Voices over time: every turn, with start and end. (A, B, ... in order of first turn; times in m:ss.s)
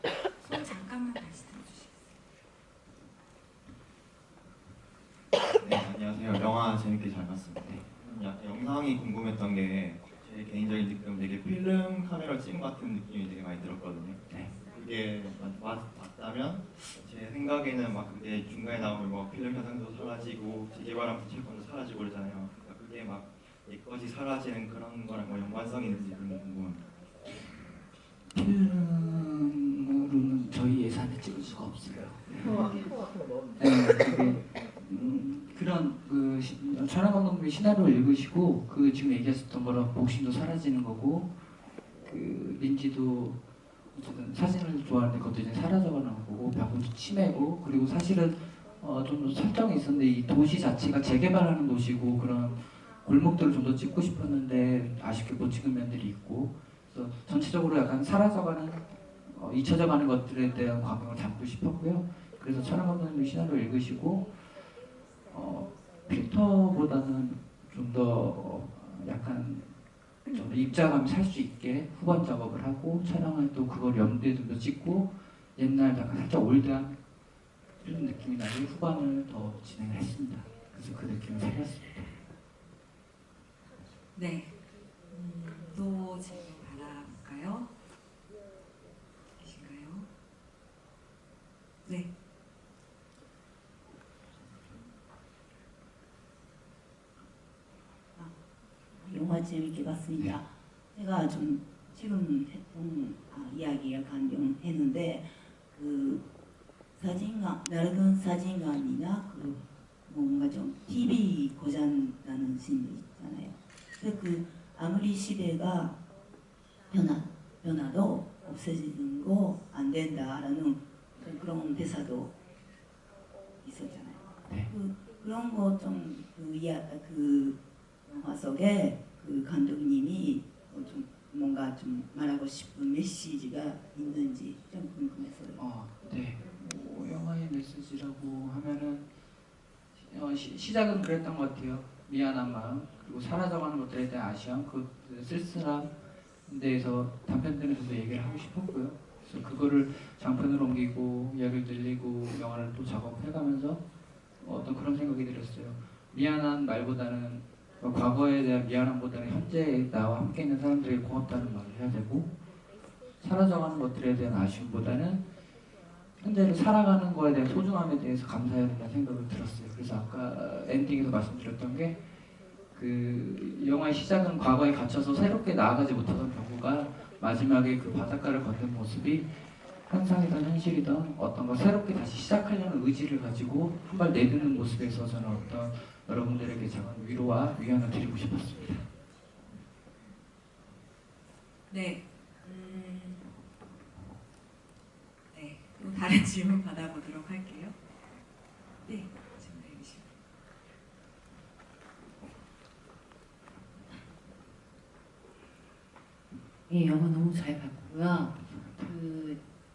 0:00.4-0:02.0 A
0:05.6-0:26.8 B
0:07.6-0:07.8 C
0:14.3-0:14.6 C
0:28.3-0:32.9 C
0:33.6-0:41.4 C
0:42.0-0:43.4 C
0:43.9-1:04.4 C
1:05.3-1:09.8 C
1:10.3-1:17.0 C
1:17.8-1:22.1 C
1:24.1-1:24.6 A
1:25.1-1:27.7 A
1:29.4-1:30.1 A
1:31.8-1:32.1 A
1:38.9-1:46.2 D
1:40.2-1:40.4 C
1:47.0-1:56.0 D
1:56.9-2:02.3 D
2:03.6-2:15.6 D
2:15.6-2:19.1 C
2:19.9-2:33.8 C
2:34.4-2:42.3 C
2:43.2-2:45.2 C
2:46.2-2:52.0 C
2:52.7-3:08.9 C
3:11.7-3:13.3 A
3:15.3-3:17.8 A
3:18.8-3:20.2 A
3:26.7-3:29.4 E
3:28.1-3:29.0 C